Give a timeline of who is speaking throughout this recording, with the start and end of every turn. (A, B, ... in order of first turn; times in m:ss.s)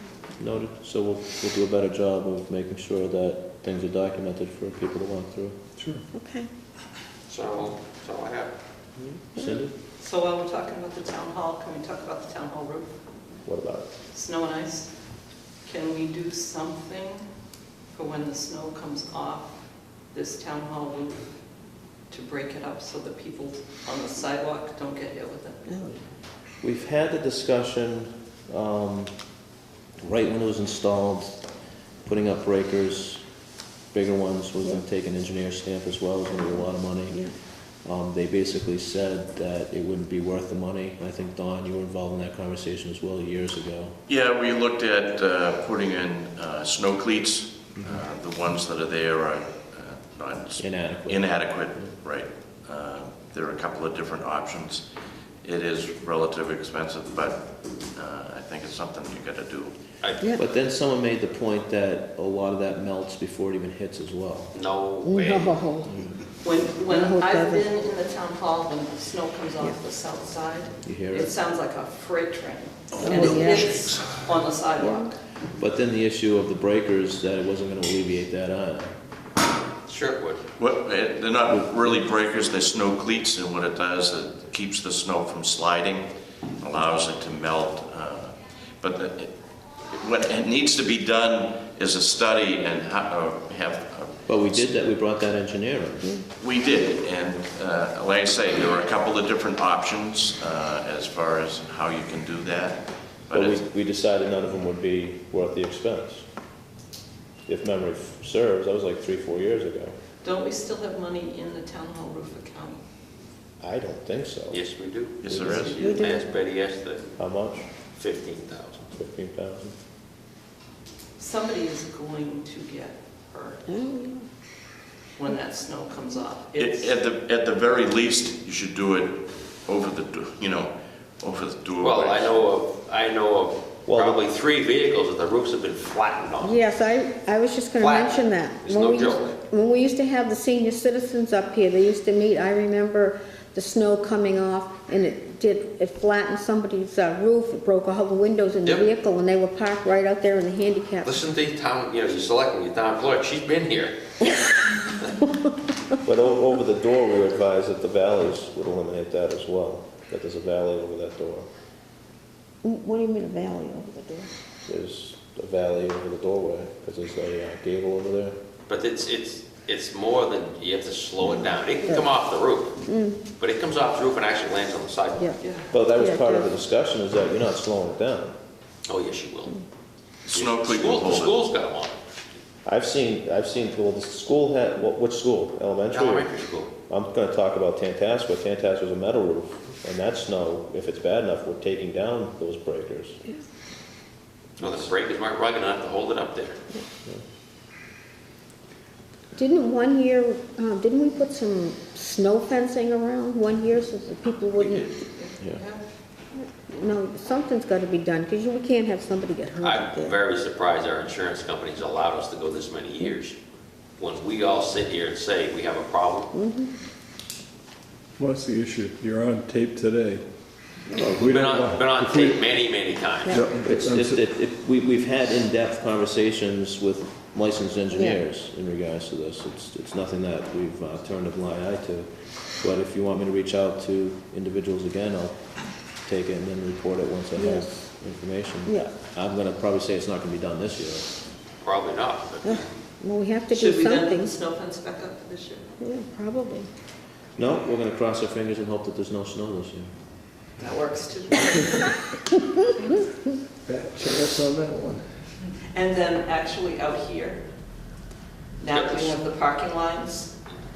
0:00.4-0:05.6 A
0:06.1-0:06.5 B
0:07.3-0:08.5 C
0:09.0-0:09.7 A
0:10.0-0:12.9 D
0:13.4-0:13.9 A
0:14.1-0:15.0 D
0:15.6-0:17.2 D
0:17.9-0:21.3 D
0:22.1-0:25.6 D
0:25.7-0:26.0 B
0:26.6-0:29.2 A
0:30.0-0:31.4 A
0:32.0-0:33.2 A
0:33.9-0:37.2 A
0:37.8-0:43.9 A
0:44.1-0:54.8 E
0:50.6-0:51.9 A
0:55.4-0:59.7 E
1:00.0-1:00.4 C
1:00.3-1:04.5 A
1:04.5-1:05.6 C
1:05.0-1:05.9 B
1:05.9-1:06.2 A
1:06.4-1:15.2 D
1:06.9-1:07.7 B
1:10.8-1:11.3 A
1:13.0-1:13.9 B
1:15.6-1:18.9 A
1:19.8-1:20.4 C
1:20.6-1:34.8 E
1:34.3-1:36.1 A
1:36.4-1:43.6 E
1:43.3-1:46.2 A
1:47.5-1:49.9 A
1:50.2-1:52.8 D
1:53.6-1:54.6 A
1:54.5-1:57.2 C
1:55.2-1:55.8 E
1:55.4-1:56.0 D
1:55.8-1:56.2 B
1:57.2-1:57.6 A
1:57.9-1:58.9 C
1:58.9-1:59.7 A
2:01.2-2:04.1 D
2:03.7-2:04.2 B
2:05.2-2:07.0 D
2:06.6-2:12.3 E
2:11.8-2:16.6 C
2:13.8-2:14.2 A
2:16.4-2:31.1 B
2:17.8-2:19.4 C
2:31.0-2:34.0 C
2:36.0-2:41.4 A
2:42.6-2:44.3 B
2:44.7-2:48.4 A
2:48.7-2:52.8 C
2:52.8-2:53.2 B
2:53.3-2:55.3 C
2:55.4-2:55.7 D
2:55.7-2:58.3 A
2:55.9-2:56.5 B
2:58.9-2:59.6 C
3:00.2-3:01.4 E
3:00.3-3:01.9 C
3:02.6-3:06.3 A
3:05.9-3:06.7 C
3:06.9-3:13.2 A
3:14.6-3:16.6 C
3:14.6-3:14.9 A
3:19.3-3:25.0 B
3:24.8-3:25.8 D
3:26.4-3:30.1 B
3:29.6-3:33.4 C
3:34.0-3:36.3 C
3:36.3-3:36.7 B
3:38.2-3:40.2 F
3:40.9-3:41.3 A
3:41.1-3:41.7 F
3:41.2-3:43.5 C
3:43.3-3:43.6 B
3:43.3-3:44.1 F
3:43.6-4:01.1 A
3:47.9-3:48.2 B
3:57.3-3:57.8 B
3:58.6-3:58.9 B
4:01.6-4:02.7 C
4:02.4-4:04.3 B
4:03.5-4:05.7 D
4:05.8-4:06.7 B
4:07.4-4:09.9 A
4:10.6-4:12.1 D
4:13.7-4:15.0 F
4:15.7-4:17.4 D
4:18.6-4:20.4 D
4:18.7-4:19.2 C